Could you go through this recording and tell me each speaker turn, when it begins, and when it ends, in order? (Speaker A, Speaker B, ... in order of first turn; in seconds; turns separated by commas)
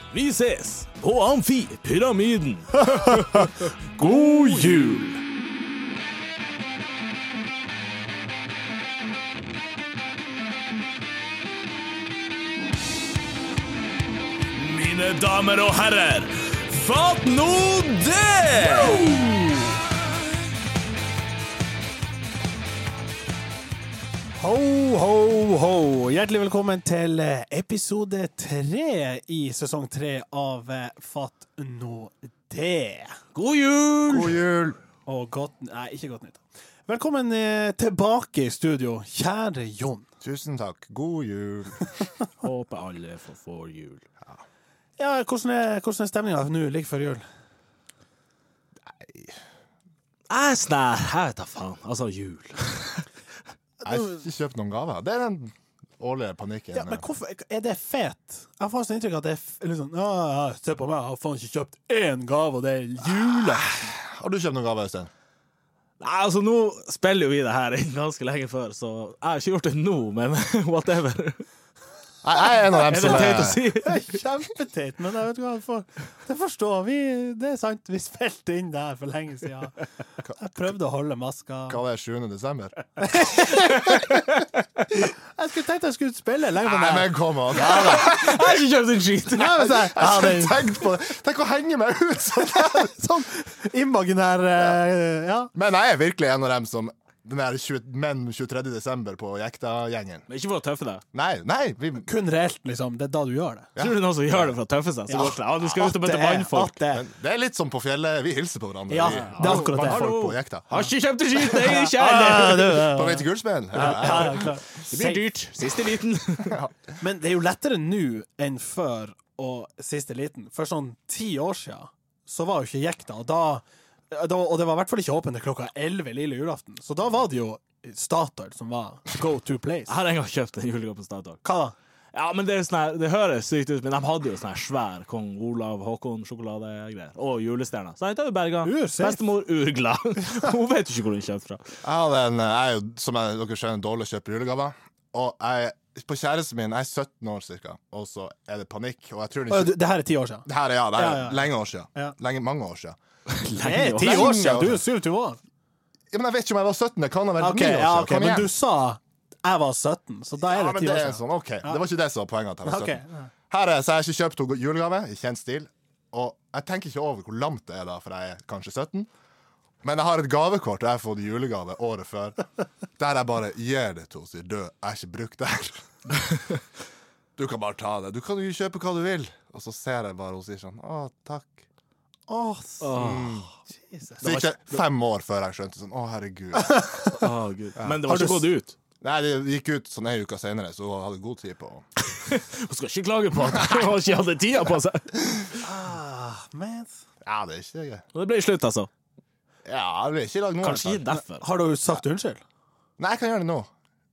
Speaker A: 0.1-3.7, Speaker B: 2.8-5.2, Speaker A: 14.5-19.1, Speaker B: 18.6-19.8, Speaker B: 24.4-33.2, Speaker A: 33.4-34.4, Speaker C: 34.1-34.8, Speaker B: 35.1-40.1, Speaker C: 40.2-41.9, Speaker A: 42.4-44.0, Speaker B: 45.0-47.2, Speaker C: 48.8-49.4, Speaker A: 50.3-53.1, Speaker B: 53.8-54.2, Speaker C: 53.8-57.0, Speaker B: 56.7-63.9, Speaker C: 63.0-65.1, Speaker A: 66.0-71.5, Speaker C: 72.2-73.6, Speaker B: 72.6-79.8, Speaker A: 72.7-74.2, Speaker B: 80.4-81.8, Speaker C: 81.7-83.0, Speaker B: 83.0-88.2, Speaker A: 83.7-84.1, Speaker C: 86.6-88.5, Speaker A: 87.6-89.7, Speaker B: 89.3-90.7, Speaker C: 89.5-93.0, Speaker B: 92.4-95.5, Speaker C: 95.5-100.3, Speaker A: 100.3-101.0, Speaker C: 101.1-102.1, Speaker B: 102.1-103.7, Speaker C: 103.8-104.5, Speaker A: 103.8-106.7, Speaker B: 105.1-107.1, Speaker C: 106.9-110.7, Speaker B: 108.9-110.1, Speaker A: 109.0-112.8, Speaker B: 111.4-115.3, Speaker C: 112.7-114.5, Speaker A: 113.8-116.6, Speaker C: 116.5-117.0, Speaker B: 117.0-129.9, Speaker A: 129.9-131.4, Speaker B: 131.4-131.7, Speaker A: 132.1-141.6, Speaker B: 138.6-139.2, Speaker C: 141.8-149.8, Speaker B: 149.5-152.2, Speaker C: 150.5-153.0, Speaker A: 153.3-154.4, Speaker B: 153.6-155.4, Speaker C: 154.0-154.8, Speaker C: 156.1-158.5, Speaker B: 157.4-161.8, Speaker C: 160.5-169.1, Speaker B: 162.7-163.3, Speaker C: 169.8-172.4, Speaker C: 173.0-175.9, Speaker C: 177.4-181.6, Speaker B: 182.3-182.9, Speaker A: 182.8-183.5, Speaker C: 182.9-183.5, Speaker B: 183.8-184.5, Speaker C: 184.2-186.9, Speaker B: 186.6-187.3, Speaker A: 187.2-188.8, Speaker B: 188.0-188.5, Speaker C: 189.0-191.8, Speaker A: 192.0-195.1, Speaker C: 193.5-193.8, Speaker C: 195.1-195.5, Speaker B: 195.6-196.9, Speaker C: 197.2-198.0, Speaker A: 198.2-198.9, Speaker C: 199.7-201.0, Speaker A: 200.6-201.4, Speaker B: 201.1-202.4, Speaker C: 203.0-203.7